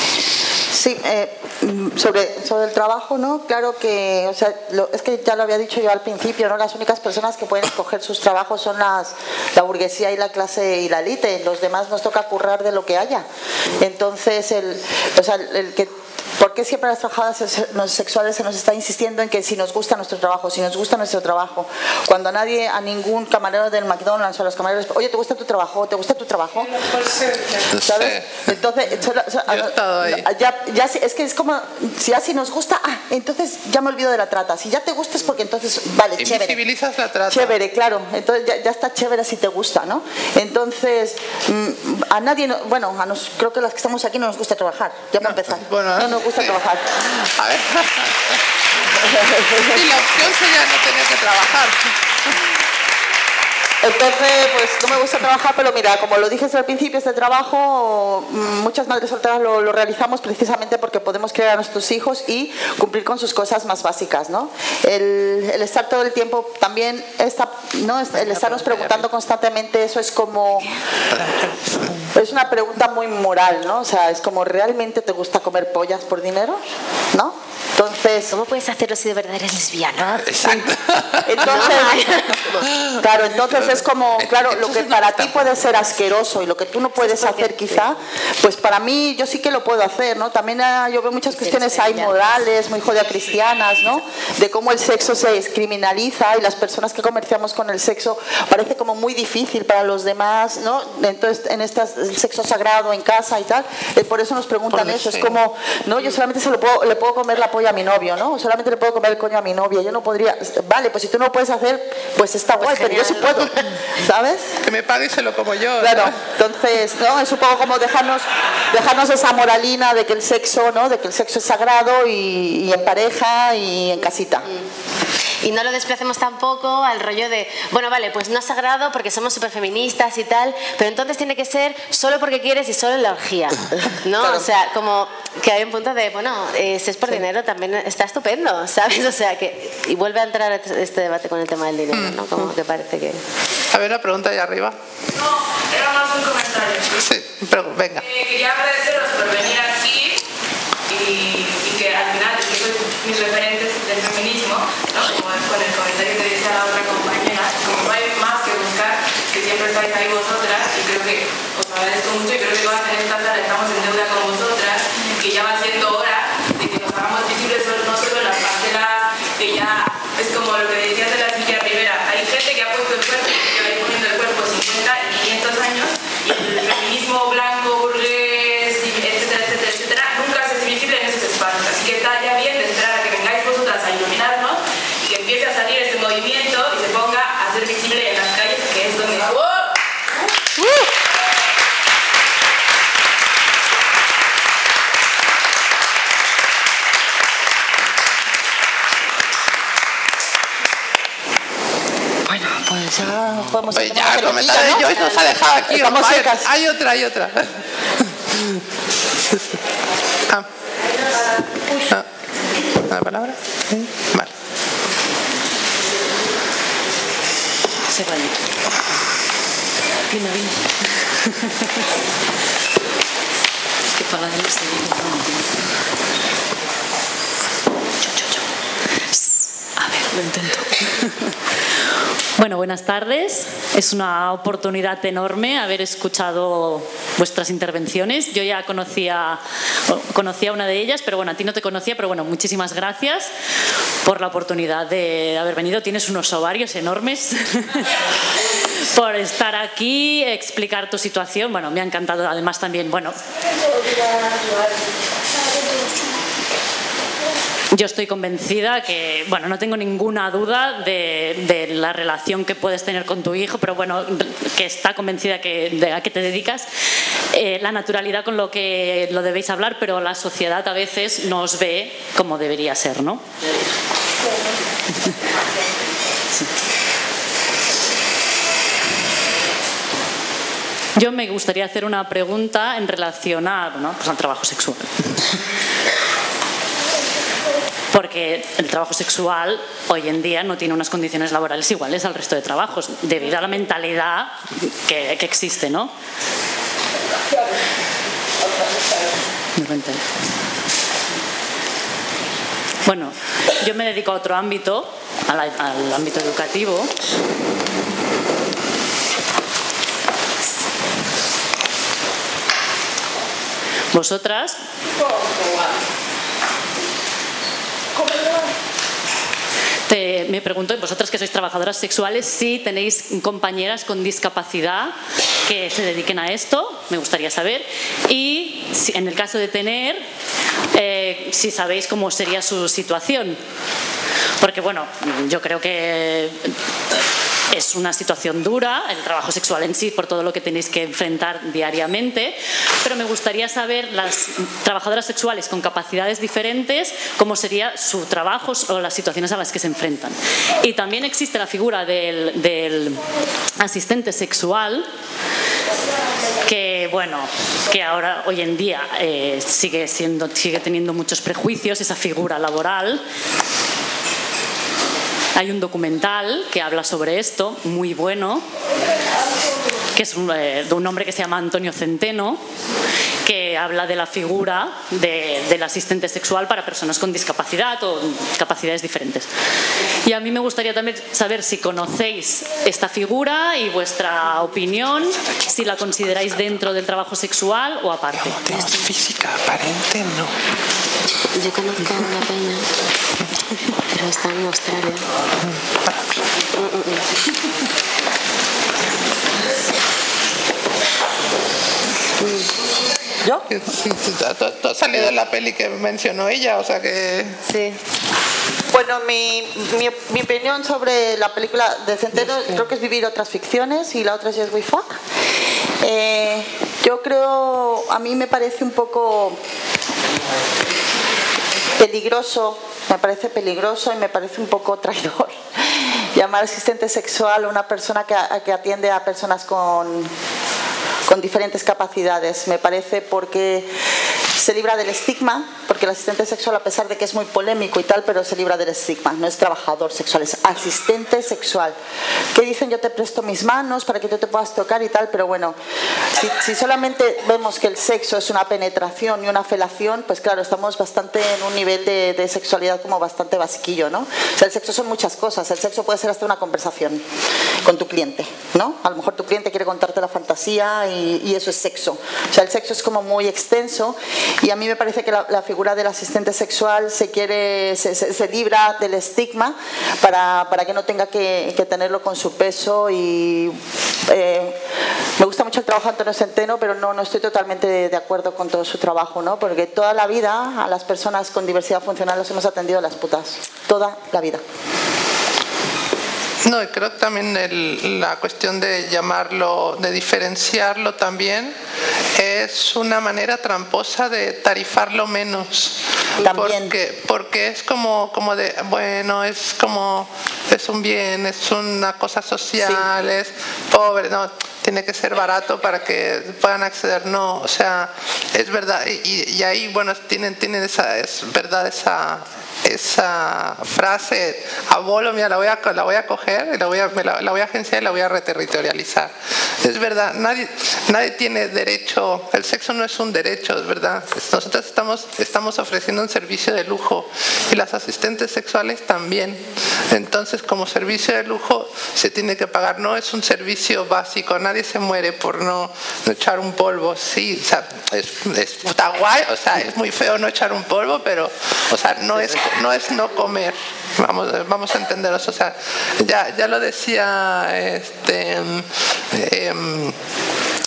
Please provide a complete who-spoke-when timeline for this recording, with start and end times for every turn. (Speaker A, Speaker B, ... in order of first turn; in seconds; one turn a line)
Speaker A: 0.7-36.6
Speaker B: 27.7-28.5
Speaker B: 29.5-30.3
Speaker B: 36.2-37.5
Speaker A: 37.3-47.0
Speaker B: 45.2-52.4
Speaker A: 49.0-50.0
Speaker A: 53.8-70.7
Speaker B: 68.2-69.1
Speaker B: 71.1-72.1
Speaker A: 72.1-78.3
Speaker C: 78.3-80.7
Speaker B: 80.2-81.8
Speaker A: 81.2-82.0
Speaker C: 81.4-82.7
Speaker B: 82.7-83.0
Speaker A: 83.0-114.6
Speaker B: 83.7-85.3
Speaker C: 87.0-87.9
Speaker C: 91.3-92.3
Speaker B: 104.7-105.4
Speaker C: 112.6-113.7
Speaker B: 114.6-116.2
Speaker A: 115.8-124.5
Speaker C: 125.4-143.2
Speaker A: 134.2-134.4
Speaker B: 141.9-142.2
Speaker B: 143.7-144.8
Speaker D: 145.2-147.0
Speaker B: 147.0-148.1
Speaker D: 148.0-150.2
Speaker D: 150.9-189.7
Speaker A: 202.3-206.5
Speaker B: 203.7-208.6
Speaker B: 209.3-209.6
Speaker B: 212.8-214.3
Speaker E: 217.9-218.4
Speaker E: 220.1-220.6
Speaker E: 224.0-225.4
Speaker E: 228.1-228.4
Speaker E: 229.8-231.2
Speaker E: 232.4-243.3
Speaker E: 244.0-248.0
Speaker E: 248.7-253.2
Speaker E: 257.7-266.7
Speaker E: 267.3-273.2
Speaker E: 281.0-285.4
Speaker E: 287.9-295.9
Speaker E: 299.6-300.1
Speaker E: 302.9-306.9
Speaker E: 313.9-314.6
Speaker E: 319.9-324.9
Speaker E: 325.4-330.1
Speaker E: 330.7-333.4
Speaker E: 334.4-336.6
Speaker E: 337.5-353.1
Speaker E: 353.6-354.9
Speaker E: 356.4-363.0
Speaker E: 365.4-368.5
Speaker E: 369.9-372.4
Speaker E: 373.2-379.3
Speaker E: 380.1-388.8
Speaker B: 385.3-385.6
Speaker B: 386.1-386.4
Speaker B: 388.2-390.3
Speaker C: 391.4-392.7
Speaker C: 393.9-395.1
Speaker B: 395.5-396.0
Speaker C: 396.6-397.1
Speaker C: 402.2-402.5
Speaker B: 403.5-407.4
Speaker C: 407.4-407.8
Speaker A: 408.7-415.0
Speaker A: 415.8-419.4
Speaker A: 421.8-430.1
Speaker A: 431.1-433.7
Speaker A: 434.3-441.8
Speaker A: 442.3-445.6
Speaker A: 446.1-457.1
Speaker A: 457.6-474.6
Speaker A: 475.2-484.4
Speaker B: 486.4-491.6
Speaker B: 492.1-550.0
Speaker A: 496.2-496.8
Speaker A: 502.6-502.9